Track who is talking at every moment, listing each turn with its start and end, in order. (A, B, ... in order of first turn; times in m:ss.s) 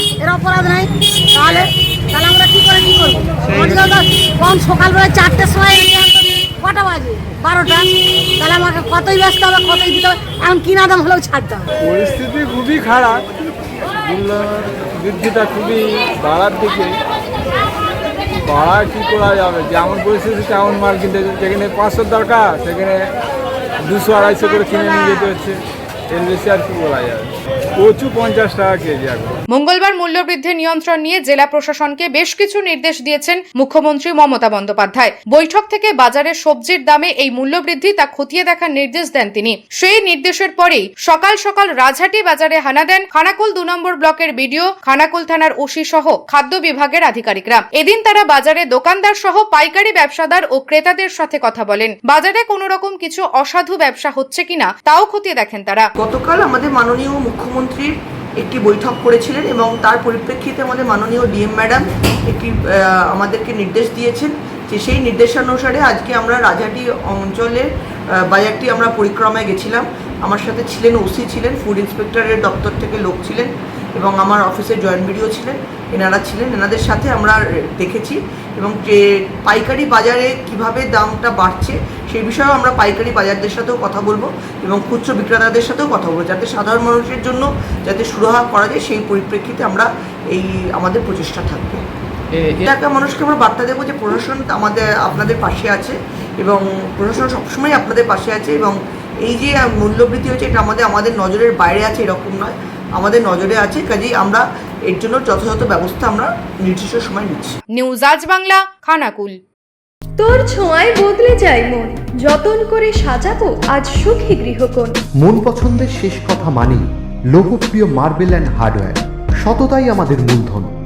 0:00.2-0:11.7 A
0:11.8-0:13.3 B
0:13.9-0:17.0 B
0:18.5-0:23.1 B
0:23.8-0:29.4 B
0:29.5-0:55.9 C
0:56.0-1:31.8 D
1:32.6-1:47.6 D
1:47.7-1:49.4 C
1:50.2-1:55.0 E
1:55.2-2:00.7 F